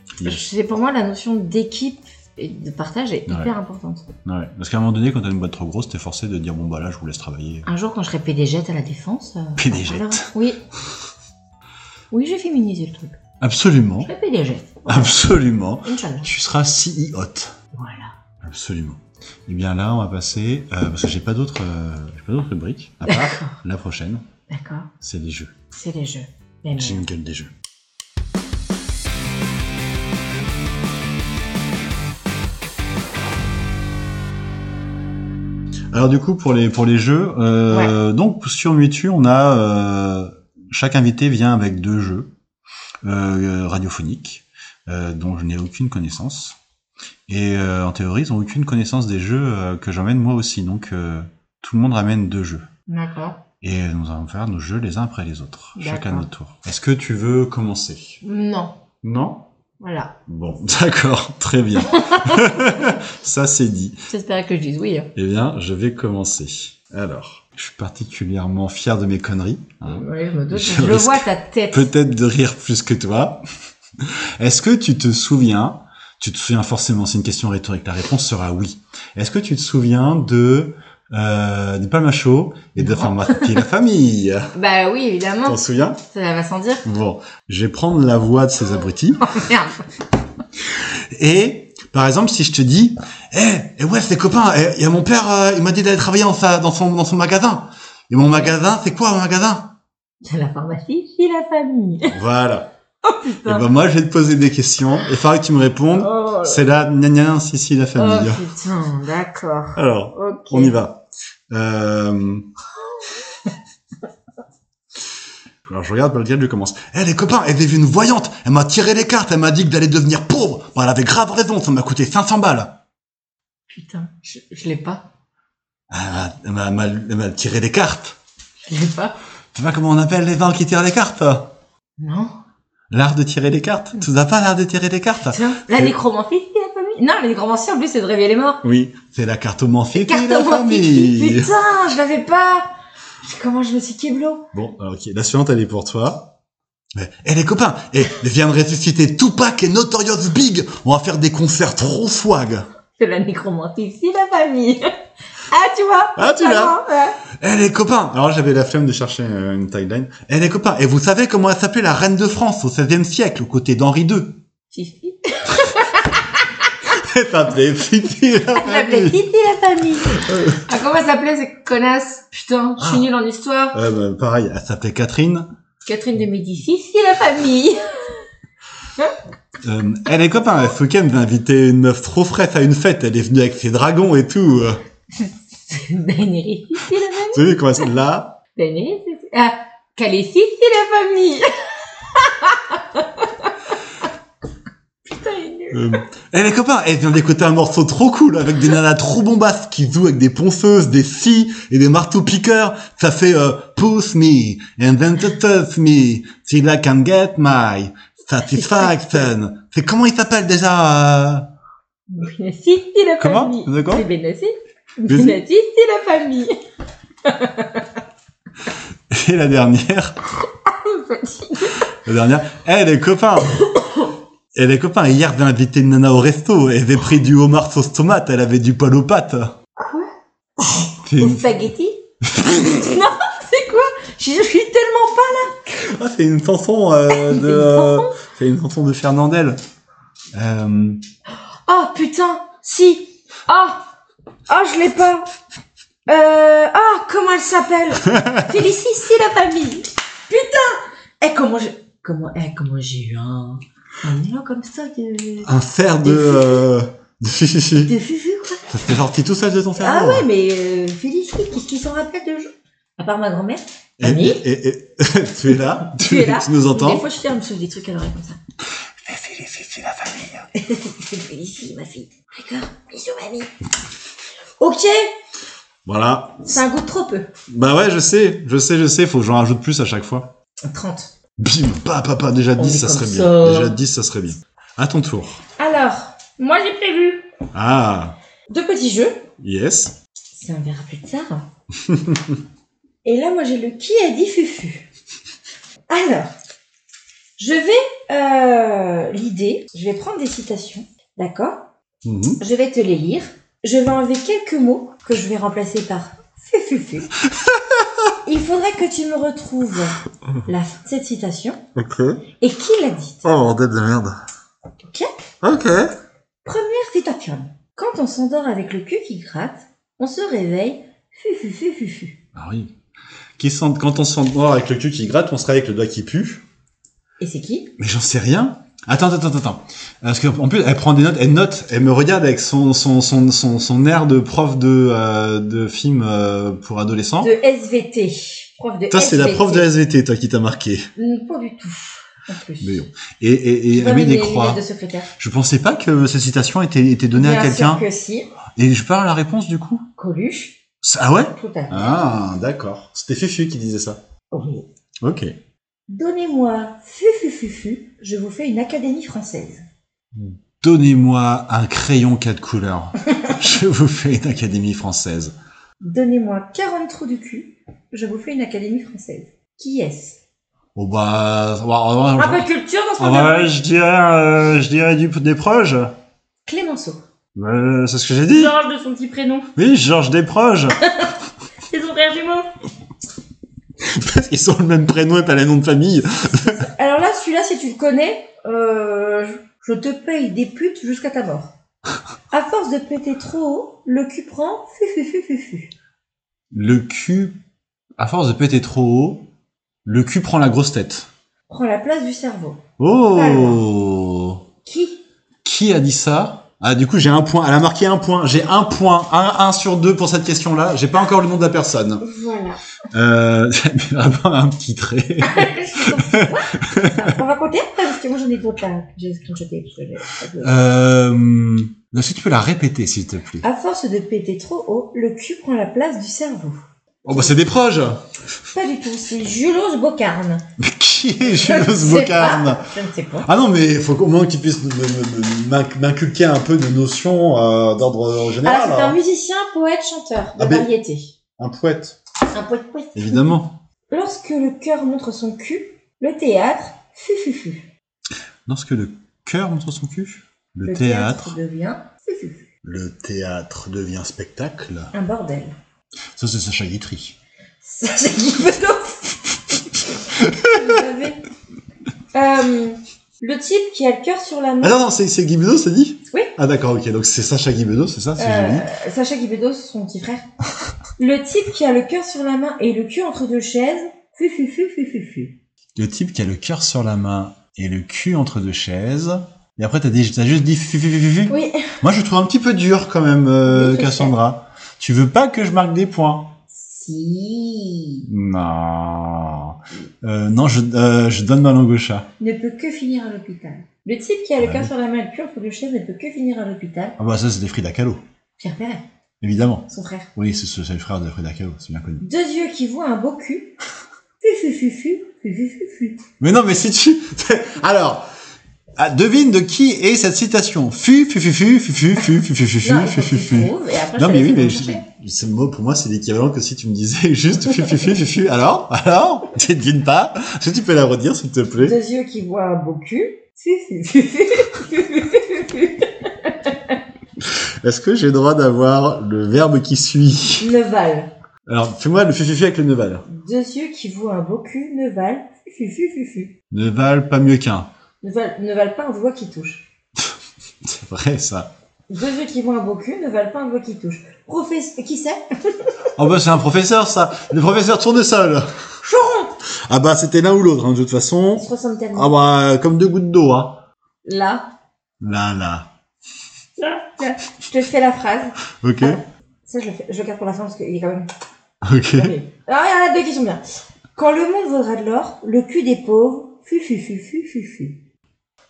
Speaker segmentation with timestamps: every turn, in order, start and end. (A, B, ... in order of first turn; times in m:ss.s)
0:00.2-0:00.4 A
0:00.2-0:04.1 B
0:04.2-0:07.7 A
0:07.6-0:10.6 B
0:09.6-0:10.3 A
0:12.1-0:13.2 B
0:13.4-0:14.1 A
0:14.0-0:15.2 B
0:14.8-0:17.6 A
0:15.8-0:16.3 B
0:17.7-0:18.1 B
0:18.4-0:24.2 A
0:23.0-0:23.5 B
0:24.5-0:24.9 B
0:25.0-0:25.5 A
0:25.7-0:27.0 B
0:26.8-0:27.5 A
0:35.9-0:42.3 A
0:37.7-0:37.9 B
0:43.0-0:46.6 A
0:47.3-0:52.6 A
0:52.9-0:53.4 B
0:53.6-0:58.2 A
0:55.8-0:56.3 B
0:58.2-0:58.8 B
0:59.0-0:59.4 A
0:59.8-1:00.2 B
1:00.2-1:04.0 A
1:01.8-1:03.0 B
1:04.1-1:05.1 B
1:05.1-1:13.4 A
1:09.8-1:11.9 B
1:14.0-1:24.5 A
1:22.8-1:23.6 B
1:24.5-1:26.8 B
1:25.4-1:26.0 A
1:26.8-1:29.3 A
1:29.2-1:29.8 B
1:30.6-1:39.7 A
1:38.2-1:38.5 B
1:40.2-1:42.2 B
1:42.1-1:42.7 A
1:43.0-1:43.7 B
1:43.4-1:48.4 A
1:45.9-1:46.7 B
1:47.9-1:50.7 B
1:49.7-1:52.5 A
1:53.0-1:53.5 B
1:55.6-2:02.8 A
2:03.7-2:05.0 B
2:05.9-2:08.2 A
2:08.6-2:09.2 B
2:09.5-2:11.5 A
2:12.0-2:12.3 B
2:12.9-2:15.9 A
2:15.3-2:18.6 B
2:18.6-2:21.5 A
2:19.9-2:22.7 B
2:23.2-2:24.4 B
2:24.5-2:26.3 A
2:26.9-2:32.7 A
2:33.0-2:37.2 B
2:36.2-2:44.4 A
2:44.7-2:46.6 B
2:46.8-2:49.2 A
2:48.6-2:53.8 B
2:50.2-2:50.6 A
2:52.8-2:53.1 A
2:53.7-2:55.5 A
2:55.8-2:58.2 B
2:59.6-3:04.8 A
3:05.2-3:07.6 B
3:07.3-3:08.4 A
3:08.5-3:13.5 B
3:15.0-3:16.0 B
3:15.7-3:31.5 A
3:28.5-3:29.2 B
3:32.1-3:36.6 B
3:33.2-3:34.0 A
3:35.1-3:35.4 A
3:37.2-3:37.9 B
3:39.1-3:40.2 A
3:40.5-3:41.8 B
3:42.0-3:43.6 A
3:43.6-3:44.1 B
3:44.5-3:49.6 A
3:49.8-3:55.7 B
3:51.0-3:51.4 A
3:55.7-3:59.6 A
3:57.1-3:58.1 B
4:00.3-4:01.0 A
4:01.6-4:03.9 B
4:04.5-4:05.3 B
4:06.0-4:15.5 B
4:08.1-4:08.5 A
4:15.4-4:17.9 A
4:16.0-4:16.6 B
4:17.8-4:18.6 B
4:18.7-4:20.3 A
4:19.8-4:24.4 B
4:24.0-4:27.0 A
4:25.8-4:28.4 B
4:29.0-4:30.5 A
4:30.5-4:33.5 B
4:34.6-4:35.1 B
4:35.8-4:36.6 A
4:36.4-4:37.3 B
4:37.5-4:40.3 A
4:40.6-4:41.1 B
4:41.4-4:45.4 A
4:42.6-4:43.8 B
4:45.6-4:47.3 B
4:47.5-4:48.2 A
4:48.5-4:49.2 B
4:49.4-4:49.9 A
4:50.3-4:51.5 B
4:51.8-4:52.4 A
4:53.0-4:54.9 B
4:55.9-4:56.3 B
4:57.4-5:01.7 B
5:02.0-5:02.4 A
5:02.4-5:07.1 B
5:07.4-5:07.8 A
5:08.2-5:11.6 B
5:11.8-5:12.2 A
5:12.4-5:13.2 B
5:13.2-5:14.2 A
5:14.8-5:15.1 B
5:15.4-5:15.9 A
5:16.4-5:22.2 B
5:22.3-5:22.7 A
5:23.4-5:26.4 A
5:27.2-5:27.7 B
5:27.8-5:37.3 A
5:37.2-5:39.7 B
5:38.9-5:40.9 A
5:41.0-5:42.8 B
5:42.6-5:44.6 A
5:43.7-5:45.1 B
5:45.2-5:47.8 A
5:47.1-5:48.3 B
5:48.6-5:49.9 A
5:50.0-5:50.6 B
5:50.8-5:54.0 A
5:51.3-5:52.0 B
5:54.3-5:54.7 B
5:55.0-5:55.3 A
5:55.9-5:59.6 B
6:00.1-6:05.3 A
6:05.8-6:10.2 B
6:10.8-6:12.4 A
6:12.2-6:13.5 B
6:13.0-6:15.9 A
6:16.4-6:17.0 B
6:17.4-6:18.5 A
6:18.3-6:19.5 B
6:19.6-6:20.8 A
6:20.8-6:21.1 B
6:21.7-6:22.5 B
6:23.8-6:26.6 A
6:26.4-6:31.5 B
6:32.3-6:35.7 B
6:36.5-6:37.4 A
6:38.0-6:39.2 A
6:39.8-6:41.1 A
6:41.5-6:43.6 B
6:42.8-6:44.4 A
6:44.6-6:45.0 B
6:45.4-6:52.0 A
6:52.0-6:52.6 B
6:52.9-6:57.1 A
6:55.2-7:00.5 B
7:00.4-7:03.4 A
7:03.4-7:07.3 B
7:07.0-7:08.1 A
7:08.5-7:10.4 B
7:10.6-7:12.7 A
7:11.2-7:13.3 B
7:13.2-7:19.0 A
7:18.4-7:21.1 B
7:20.4-7:20.7 A
7:21.4-7:22.0 A
7:22.3-7:23.3 B
7:22.9-7:23.6 A
7:23.9-7:27.7 B
7:28.4-7:31.3 A
7:30.6-7:32.5 B
7:32.6-7:34.9 A
7:34.9-7:35.5 B
7:36.2-7:37.2 A
7:37.6-7:39.6 B
7:40.1-7:40.7 A
7:40.4-7:41.2 B
7:42.1-7:44.8 B
7:44.6-7:48.7 A
7:48.2-7:50.3 B
7:51.0-7:55.4 B
7:55.8-8:06.3 A
8:01.3-8:01.7 B
8:03.4-8:04.1 B
8:06.5-8:08.0 B
8:08.0-8:12.1 A
8:12.2-8:17.0 B
8:14.4-8:14.7 A
8:17.0-8:18.0 A
8:18.4-8:18.8 B
8:19.2-8:22.0 A
8:19.7-8:20.1 B
8:22.0-8:23.5 B
8:24.2-8:26.0 B
8:26.2-8:28.0 A
8:28.8-8:41.8 A
8:32.6-8:34.8 B
8:41.6-8:46.8 B
8:47.2-8:50.5 A
8:50.4-8:51.1 B
8:51.4-8:53.0 A
8:53.1-8:56.3 B
8:56.5-8:57.7 A
8:58.0-8:59.7 B
9:00.6-9:01.5 A
9:01.9-9:05.8 B
9:06.0-9:08.6 A
9:08.8-9:09.3 B
9:09.7-9:13.6 A
9:11.4-9:12.1 B
9:14.0-9:14.5 B
9:15.0-9:15.7 A
9:16.6-9:21.1 B
9:18.6-9:19.0 A
9:21.6-9:22.1 A
9:21.9-9:23.4 B
9:23.9-9:27.8 B